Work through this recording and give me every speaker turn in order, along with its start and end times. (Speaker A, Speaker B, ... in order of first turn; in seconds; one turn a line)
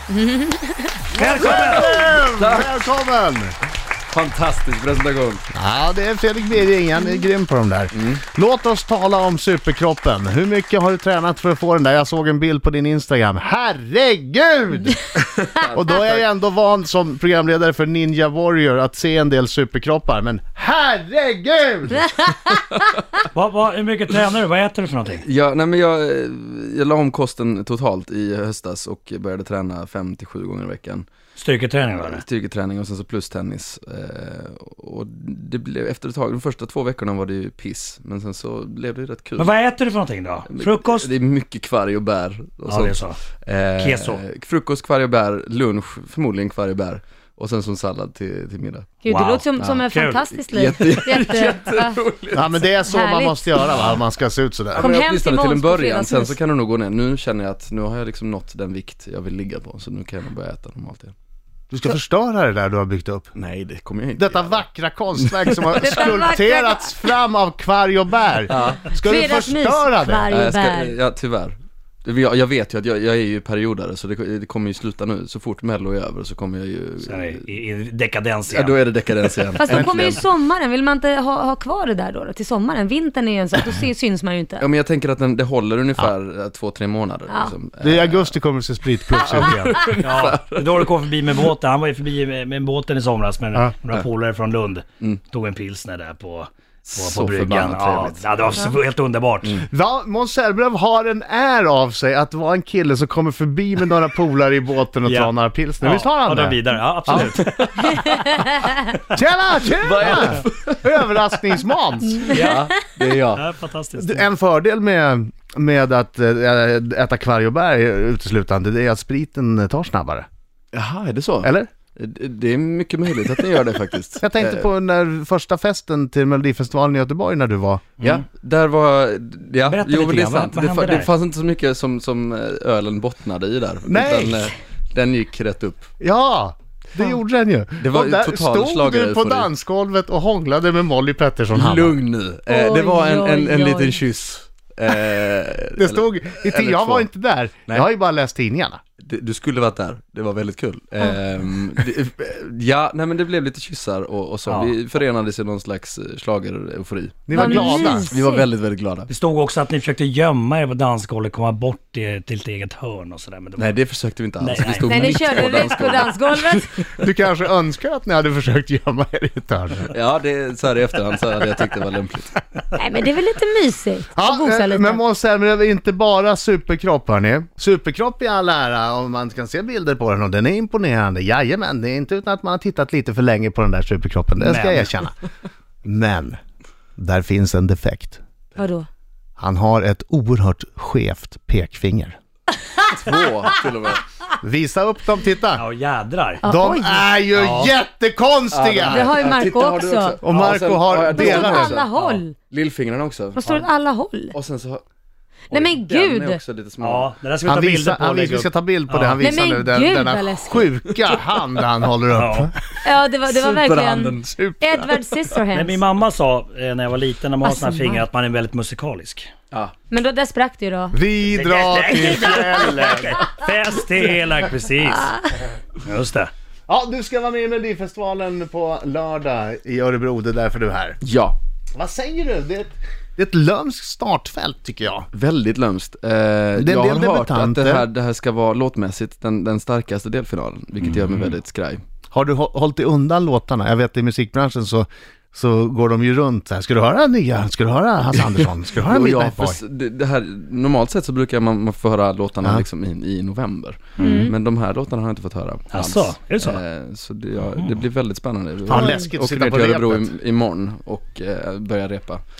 Speaker A: 0.1-1.1
Speaker B: 1.1-1.9
Speaker C: 1.1-3.5
Speaker D: 1.4-2.9
Speaker D: 4.1-5.4
Speaker C: 5.5-15.1
Speaker D: 7.9-8.2
Speaker D: 15.2-16.2
Speaker C: 15.7-22.3
Speaker B: 23.3-25.2
Speaker D: 25.2-31.1
Speaker B: 31.4-32.2
Speaker D: 32.0-39.5
Speaker B: 39.4-41.1
Speaker D: 40.5-49.0
Speaker B: 42.7-43.2
Speaker B: 43.8-44.2
Speaker A: 49.0-52.0
Speaker B: 49.0-50.2
Speaker D: 50.3-52.7
Speaker C: 52.3-54.9
Speaker A: 52.9-53.8
Speaker D: 53.7-54.0
Speaker D: 54.7-61.1
Speaker A: 54.8-56.4
Speaker C: 61.7-63.3
Speaker D: 63.3-66.0
Speaker C: 64.2-70.3
Speaker A: 65.8-67.2
Speaker D: 68.5-68.9
Speaker A: 68.9-71.0
Speaker D: 70.3-77.4
Speaker B: 77.0-78.9
Speaker D: 78.5-80.2
Speaker A: 79.5-84.6
Speaker C: 79.7-80.2
Speaker D: 84.6-88.3
Speaker C: 87.8-89.8
Speaker D: 89.1-90.9
Speaker B: 90.0-99.6
Speaker D: 96.8-98.7
Speaker C: 99.7-107.3
Speaker B: 105.0-108.2
Speaker D: 107.1-108.0
Speaker A: 108.1-108.4
Speaker C: 109.1-112.4
Speaker D: 109.8-111.2
Speaker B: 112.3-112.7
Speaker D: 112.4-113.4
Speaker B: 113.3-114.2
Speaker C: 114.0-120.2
Speaker D: 120.7-124.6
Speaker C: 121.4-121.7
Speaker C: 124.2-127.8
Speaker D: 128.0-135.9
Speaker B: 129.6-131.1
Speaker C: 133.8-134.5
Speaker C: 136.0-142.0
Speaker D: 137.8-139.5
Speaker D: 141.5-147.1
Speaker A: 142.5-144.0
Speaker C: 145.8-148.8
Speaker D: 149.0-159.1
Speaker B: 154.5-154.8
Speaker C: 157.3-158.1
Speaker A: 157.3-158.5
Speaker B: 159.1-163.7
Speaker D: 163.6-166.9
Speaker B: 164.4-165.1
Speaker A: 164.7-166.7
Speaker C: 167.0-169.9
Speaker D: 169.9-172.3
Speaker A: 172.7-175.0
Speaker C: 174.2-185.1
Speaker B: 184.4-184.9
Speaker C: 185.8-186.4
Speaker C: 187.0-188.2
Speaker A: 188.6-188.9
Speaker C: 189.4-192.2
Speaker D: 192.9-194.0
Speaker C: 194.4-195.6
Speaker B: 195.5-196.4
Speaker A: 196.4-197.1
Speaker C: 196.4-199.1
Speaker B: 197.3-197.7
Speaker D: 198.5-203.4
Speaker A: 198.9-200.2
Speaker C: 200.2-201.8
Speaker A: 201.1-202.3
Speaker B: 201.9-202.2
Speaker A: 203.3-204.3
Speaker D: 204.3-204.8
Speaker A: 205.5-206.4
Speaker D: 205.5-207.1
Speaker B: 206.8-209.2
Speaker C: 207.4-212.5
Speaker A: 209.2-210.7
Speaker D: 211.1-211.6
Speaker B: 212.1-212.5
Speaker A: 212.8-215.8
Speaker D: 213.3-214.3
Speaker C: 214.2-214.9
Speaker B: 215.5-219.3
Speaker A: 217.4-218.0
Speaker A: 219.9-221.0
Speaker C: 220.9-223.3
Speaker B: 221.3-225.2
Speaker B: 225.8-226.3
Speaker C: 226.7-231.0
Speaker D: 231.0-231.4
Speaker C: 231.7-235.1
Speaker D: 235.1-241.8
Speaker C: 236.6-237.9
Speaker C: 242.1-249.6
Speaker D: 248.8-262.2
Speaker B: 254.0-254.2
Speaker A: 254.0-254.3
Speaker B: 255.7-256.6
Speaker C: 258.7-260.1
Speaker A: 258.7-259.1